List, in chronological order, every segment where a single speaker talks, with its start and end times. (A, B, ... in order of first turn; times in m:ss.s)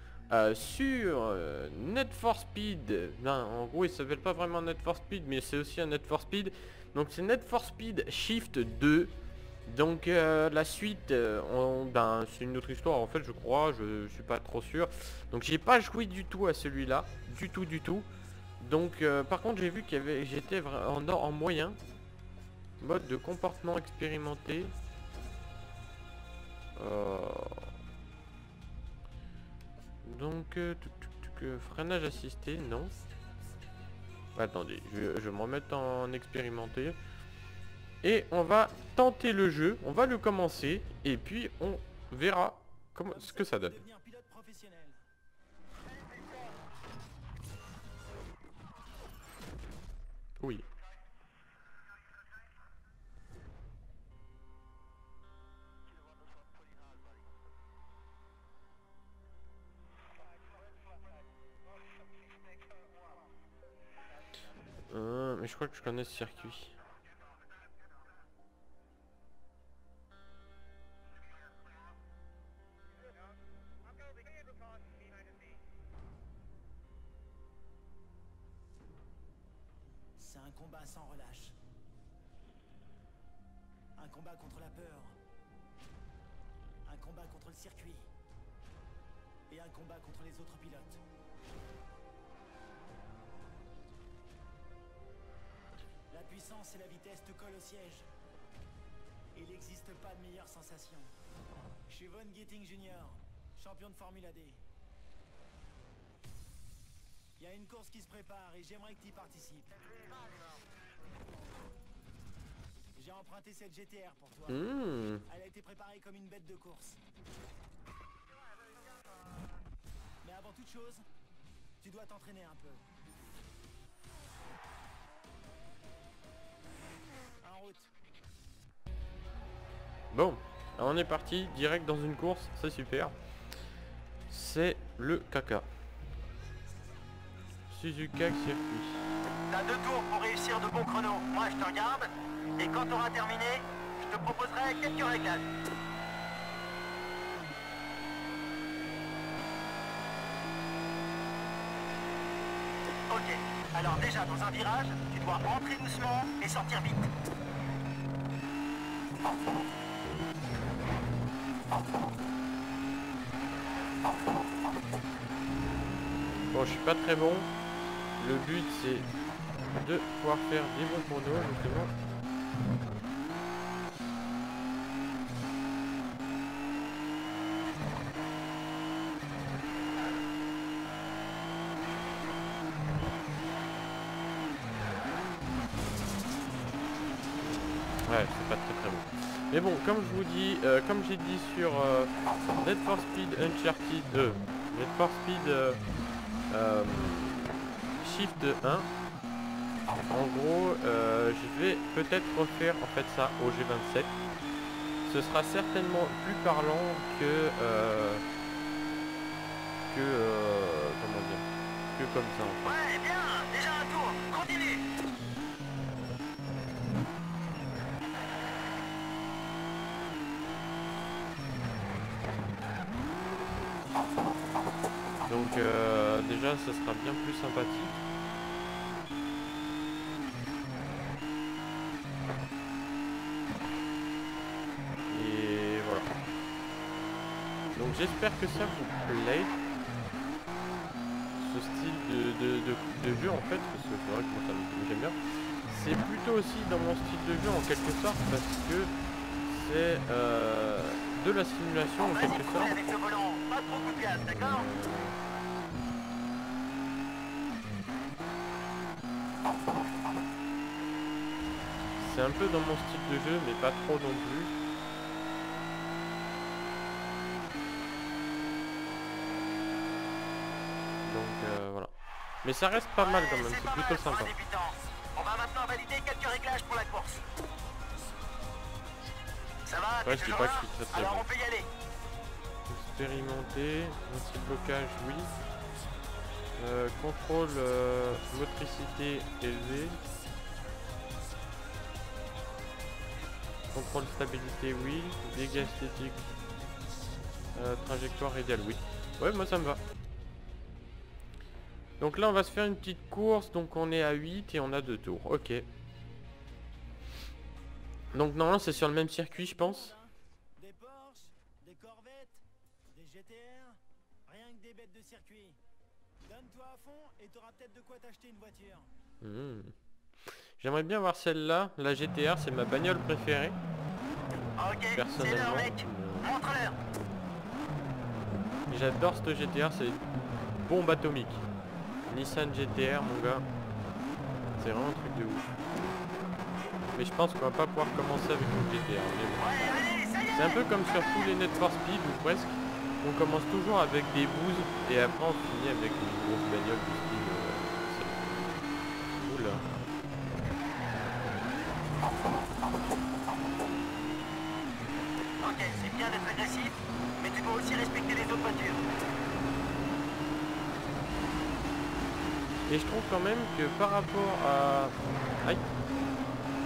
0:00.3-0:09.1 A
0:09.6-0:18.0 A
0:18.6-0:21.8 A
0:22.8-0:24.7 A
0:26.8-0:27.7 A
0:30.0-0:32.9 A
0:34.4-0:37.0 A
0:38.0-0:43.8 A
0:43.1-0:45.0 B
0:50.4-0:50.6 A
1:04.9-1:06.7 A
1:20.2-1:21.6 B
1:24.0-1:25.2 B
1:26.8-1:28.1 B
1:29.5-1:31.0 B
1:36.1-1:38.1 B
1:39.3-1:41.1 B
1:41.9-1:44.6 B
1:47.4-1:49.8 B
1:53.0-1:54.6 B
1:54.5-1:55.2 A
1:55.2-1:57.0 B
2:00.2-2:01.0 B
2:01.8-2:02.8 B
2:07.4-2:07.9 B
2:10.1-2:13.1 A
2:14.3-2:15.7 A
2:17.7-2:19.1 A
2:19.5-2:25.4 C
2:33.1-2:37.1 C
2:46.5-2:47.5 A
2:48.2-2:49.1 A
2:49.7-2:51.9 A
3:08.0-3:15.8 A
3:16.5-3:18.9 A
3:20.1-3:24.1 A
3:25.0-3:28.2 A
3:29.9-3:32.8 A
3:32.6-3:34.8 C
3:45.3-3:48.0 A
3:55.1-3:56.1 A
3:57.7-3:59.5 A
4:01.3-4:05.1 A
4:05.7-4:08.9 A
4:09.4-4:12.8 A
4:12.1-4:14.6 C
4:14.4-4:15.2 A
4:22.0-4:24.6 A
4:31.0-4:31.9 A
4:32.4-4:34.3 A
4:33.0-4:37.2 C
4:39.6-4:41.7 C
4:40.0-4:41.2 A
4:42.7-4:45.3 A
4:46.6-4:50.0 A
4:53.7-4:56.2 A
4:57.5-4:59.8 A
5:02.0-5:05.7 A
5:08.1-5:09.9 A
5:09.2-5:15.6 B
5:16.2-5:18.9 B
5:19.2-5:19.7 A
5:20.6-5:23.6 A
5:24.6-5:26.8 C
5:24.9-5:26.3 A
5:28.7-5:30.0 A
5:30.6-5:31.4 A
5:32.1-5:33.5 A
5:34.6-5:35.5 A
5:36.9-5:48.6 A
5:39.4-5:40.6 C
5:49.2-5:49.6 A
5:55.4-5:58.8 C
6:02.7-6:05.6 A